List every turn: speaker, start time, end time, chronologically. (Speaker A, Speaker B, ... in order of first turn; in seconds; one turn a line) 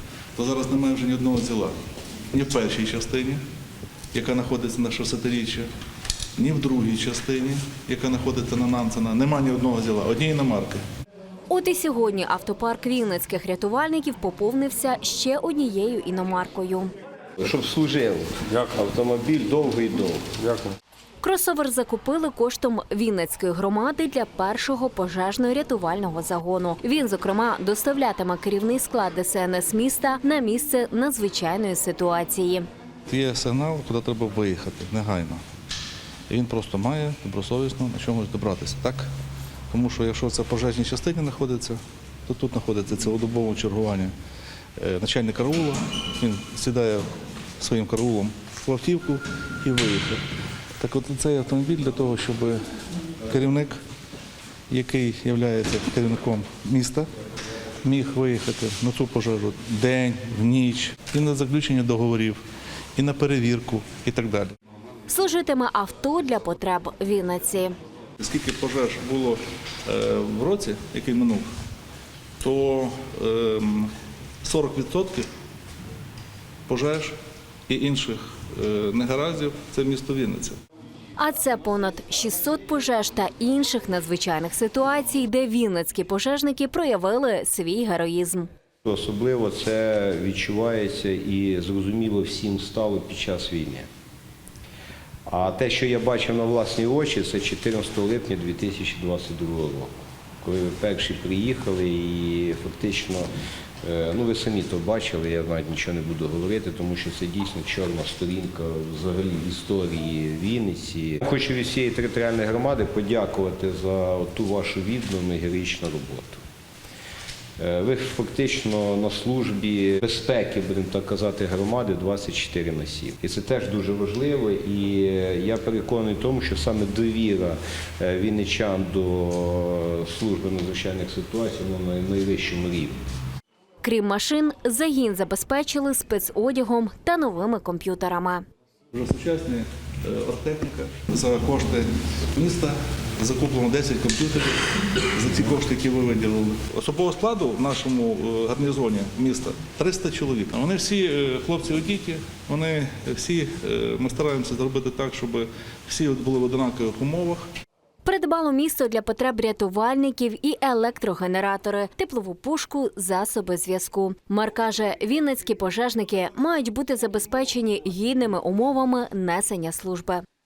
Speaker A: 0.4-1.8
Speaker A: 2.3-3.4
Speaker A: 4.1-5.7
Speaker A: 6.4-10.8
Speaker B: 11.5-16.9
Speaker C: 17.4-20.7
Speaker B: 21.2-32.6
Speaker A: 33.1-35.4
Speaker A: 36.3-39.1
Speaker A: 39.7-44.1
Speaker A: 44.8-47.1
Speaker A: 47.6-50.2
Speaker A: 50.8-52.6
Speaker A: 53.3-53.8
Speaker A: 54.7-57.1
Speaker A: 57.8-62.4
Speaker A: 63.0-64.5
Speaker B: 65.1-67.7
Speaker A: 68.2-71.5
Speaker A: 72.4-73.9
Speaker A: 74.4-75.3
Speaker A: 76.7-77.1
Speaker A: 77.7-80.6
Speaker B: 81.2-88.5
Speaker C: 88.8-93.9
Speaker C: 95.3-103.3
Speaker C: 103.8-116.4
Speaker C: 117.6-133.0
Speaker B: 133.8-138.4
Speaker A: 138.9-157.5
Speaker B: 158.1-170.2